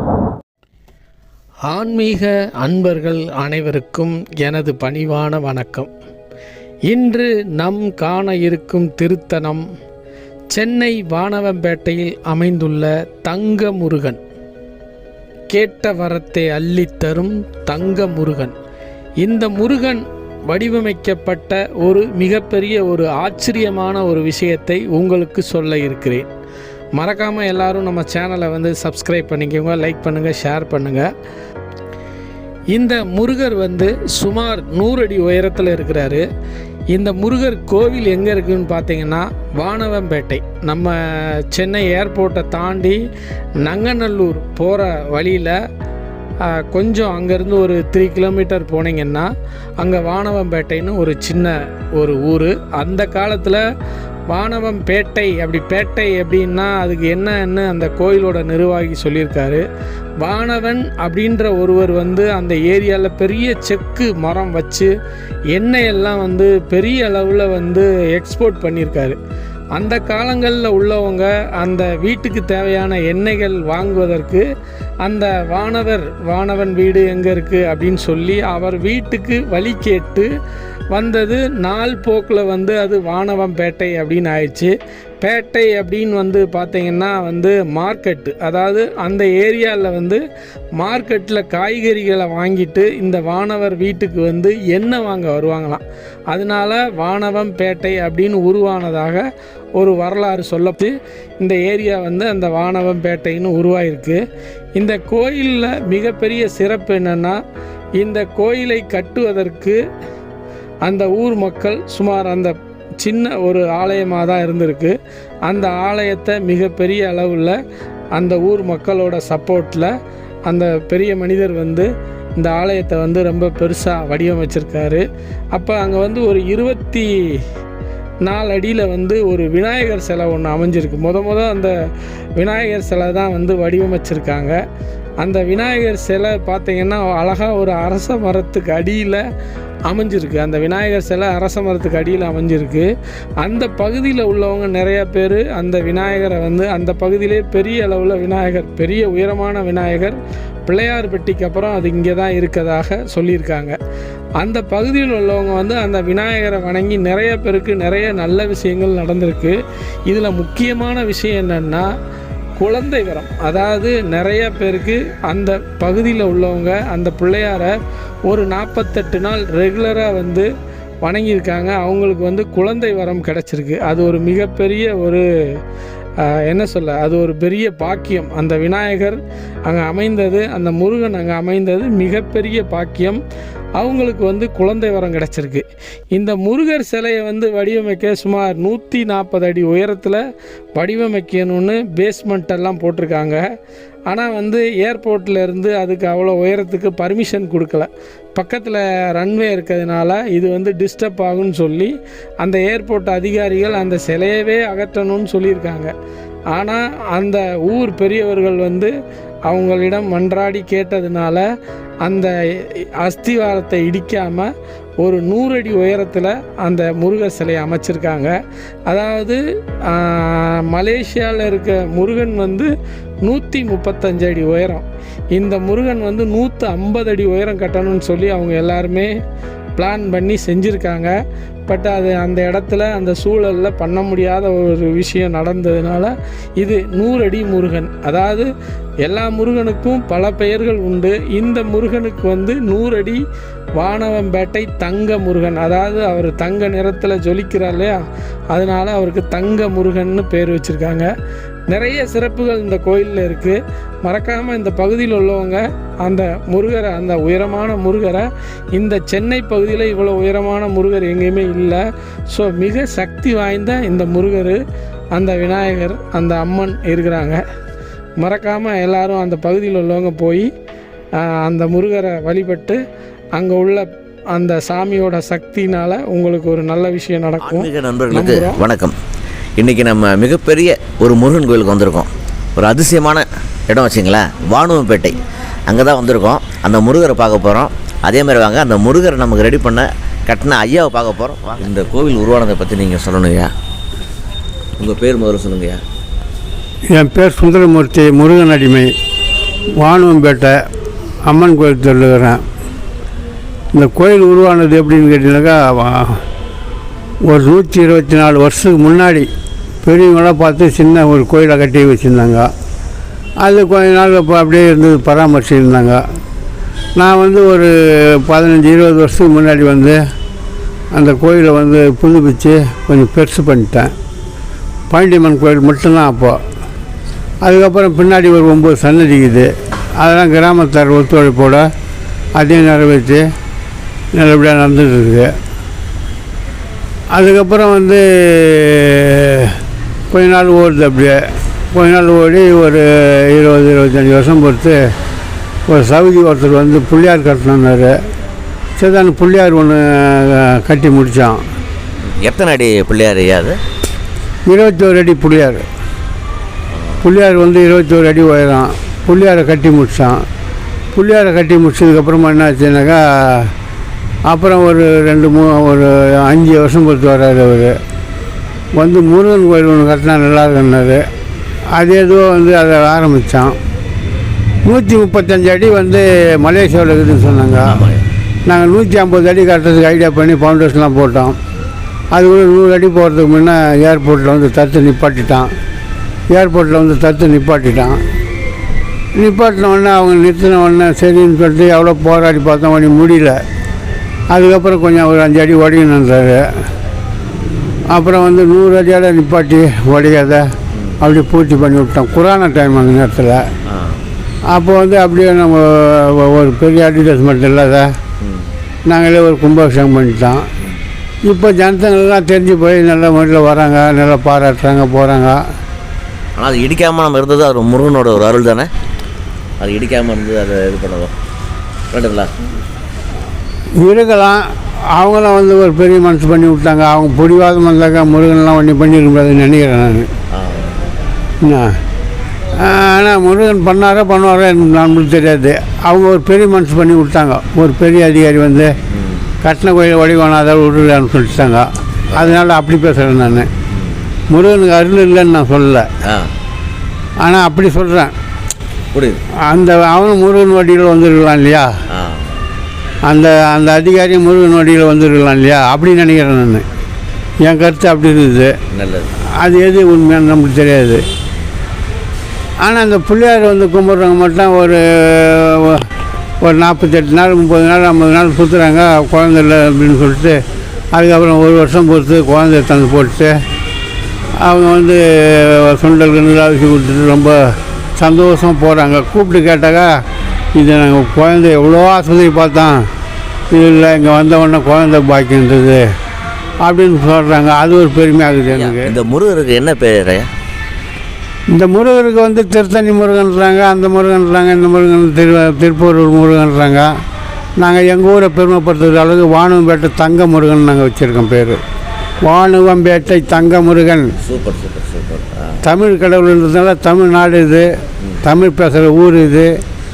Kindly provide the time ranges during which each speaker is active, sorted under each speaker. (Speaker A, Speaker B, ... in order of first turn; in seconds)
Speaker A: 1.7-5.9, 6.9-9.7, 10.5-14.2, 15.5-18.6, 19.2-26.3, 26.9-31.1, 32.7-36.2, 36.9-43.0, 43.6-45.6, 46.5-49.3, 49.8-53.6, 54.3-59.6, 60.2-64.9, 65.5-69.2, 69.8-74.4, 75.0-80.3, 80.9-90.2, 90.8-99.2, 99.8-104.2, 104.8-107.4, 108.0-109.8, 110.8-117.6, 118.2-119.9, 120.5-127.1, 128.2-131.7, 132.4-134.6, 135.2-139.2, 139.9-142.9, 143.4-153.8, 154.4-159.6, 160.1-161.9, 162.6-167.7, 168.3-170.5, 171.0-175.2, 176.2-183.2, 183.8-190.2, 190.8-193.4, 194.1-205.9, 206.5-208.9, 209.5-211.4, 212.0-214.5, 215.0-218.3, 218.9-222.7, 223.2-229.1, 229.8-231.1, 231.7-238.5, 239.0-243.2, 243.8-248.0, 248.5-251.1, 251.7-264.6, 265.1-267.4, 268.2-270.5, 271.2-272.8, 273.4-278.6
Speaker B: 277.4-279.0, 279.6-293.5, 294.8-295.8, 352.2-353.6, 377.6-378.0, 403.7-404.0, 408.2-408.5, 416.4-418.7, 419.6-421.1, 421.9-422.3, 430.3-430.9, 438.9-439.2, 442.1-442.4, 443.8-444.1, 448.9-449.2, 451.9-452.3, 458.7-459.1, 488.5-490.3, 504.2-505.6
Speaker C: 296.9-298.9, 299.8-300.6, 301.3-302.4, 303.7-306.2, 307.3-309.3, 309.8-312.5, 313.4-316.0, 317.0-320.0, 320.9-323.9, 324.9-326.4, 327.4-331.7, 332.4-333.2, 334.2-335.3, 337.1-339.5, 340.1-341.2, 341.7-344.8, 345.7-347.9, 348.8-351.4, 354.5-355.6, 357.0-360.2, 360.9-363.5, 364.3-367.8, 368.8-371.0, 371.8-373.6, 374.6-377.9, 378.5-381.4, 382.1-385.5, 386.3-388.0, 389.2-393.4, 394.3-396.4, 397.9-403.4, 404.5-407.9, 408.9-410.4, 411.3-415.4, 423.8-430.1, 431.4-431.8, 432.6-438.8, 439.4-443.5, 444.3-445.9, 447.2-448.1, 449.4-451.7, 453.0-456.6, 457.4-458.5, 459.4-461.0, 462.6-465.9, 466.4-470.4, 470.9-473.4, 474.4-480.0, 480.5-482.9, 483.5-485.9, 486.6-488.9, 491.5-496.9, 497.6-501.6, 502.2-504.1, 505.6-507.7, 508.2-509.5